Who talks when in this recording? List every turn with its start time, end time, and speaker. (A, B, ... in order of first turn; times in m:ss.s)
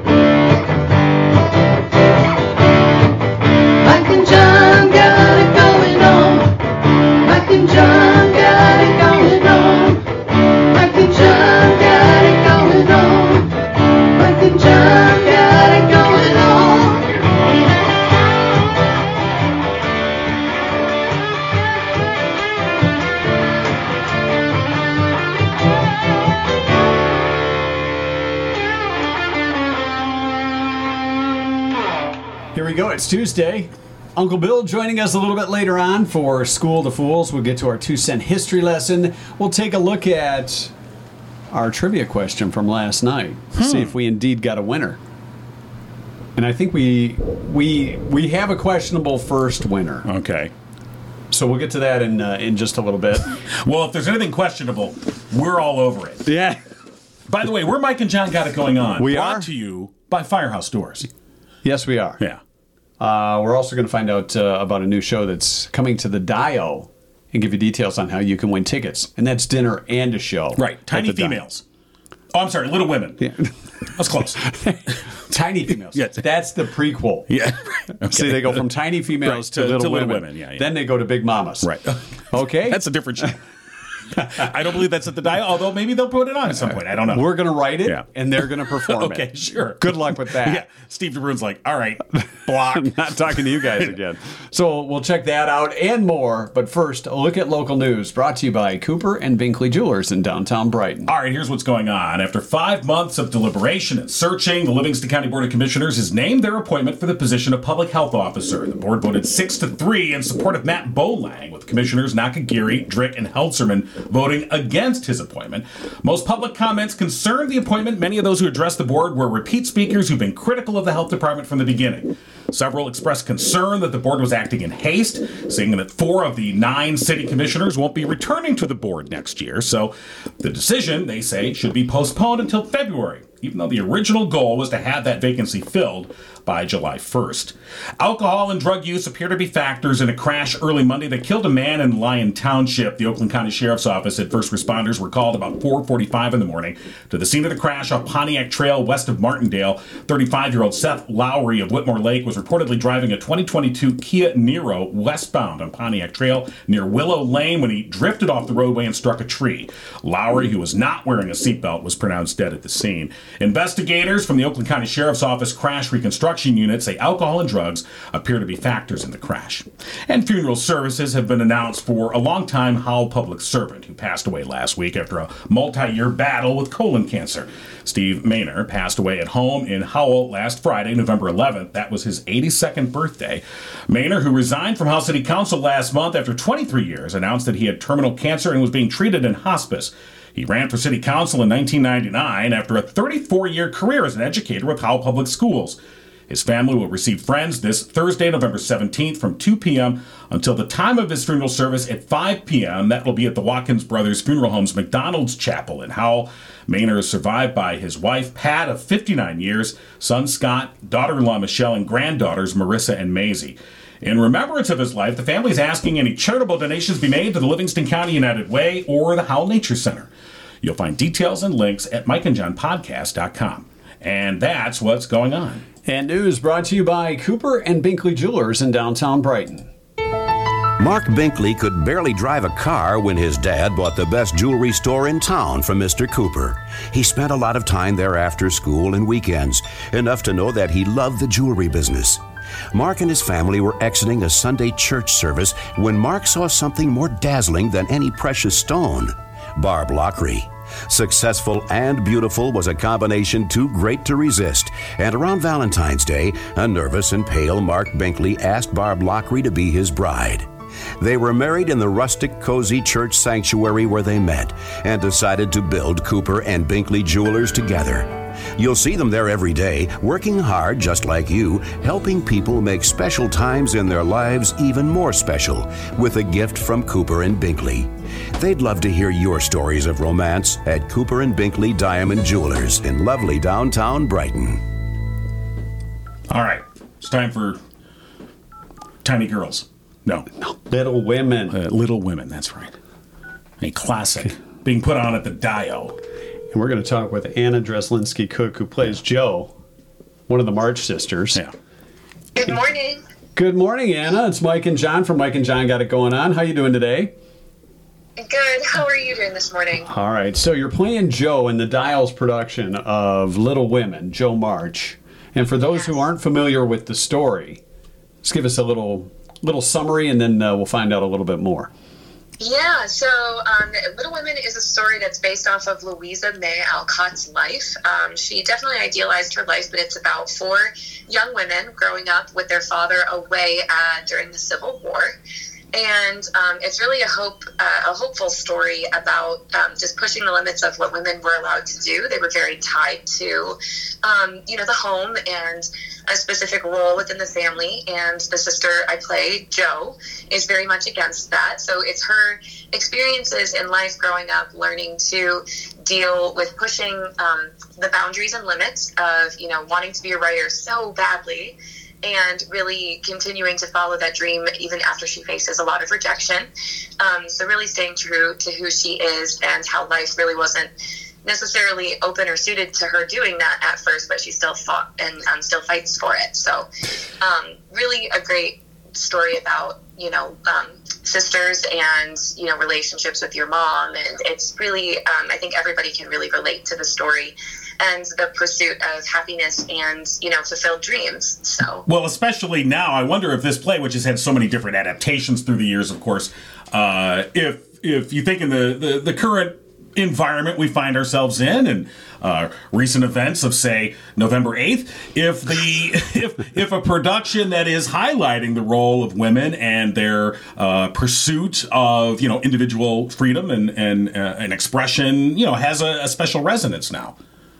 0:03.8-0:06.6 A
0:07.2-0:13.6 A
0:14.1-0:17.1 A
0:32.5-0:40.7 B
0:41.5-0:45.0 B
0:43.6-0:43.9 C
0:46.4-0:50.1 B
0:50.1-0:50.5 C
0:51.3-0:53.4 B
0:53.5-0:56.3 C
0:56.3-0:56.6 B
0:57.3-1:01.1 C
0:59.0-0:59.5 B
1:01.6-1:02.2 B
1:03.0-1:11.4 B
1:10.6-1:11.6 C
1:12.3-1:13.3 C
1:14.0-1:14.4 C
1:14.4-1:17.3 B
1:16.0-1:16.2 C
1:17.3-1:18.7 C
1:18.0-1:21.7 B
1:19.2-1:20.8 C
1:21.6-1:23.4 C
1:22.3-1:22.8 B
1:24.1-1:27.3 C
1:27.1-1:30.7 B
1:28.9-1:32.9 C
1:32.2-1:41.1 B
1:41.1-3:15.8 C
3:16.3-3:40.1 C
3:40.6-3:45.6 C
3:45.9-3:49.7 B
3:50.8-4:44.7 D
4:46.3-4:47.6 C
4:49.0-4:50.3 C
4:50.4-4:51.6 B
4:51.5-4:52.8 C
4:53.6-4:56.0 C
4:56.5-4:59.5 B
5:00.3-5:01.4 B
5:02.4-5:03.0 E
5:03.4-5:07.1 B
5:08.2-5:09.9 E
5:09.9-5:17.6 B
5:18.2-5:21.7 B
5:22.4-5:35.2 E
5:35.7-6:06.5 E
6:07.0-6:10.7 E
6:11.2-6:16.7 E
6:17.2-6:31.8 E
6:31.9-6:57.2 C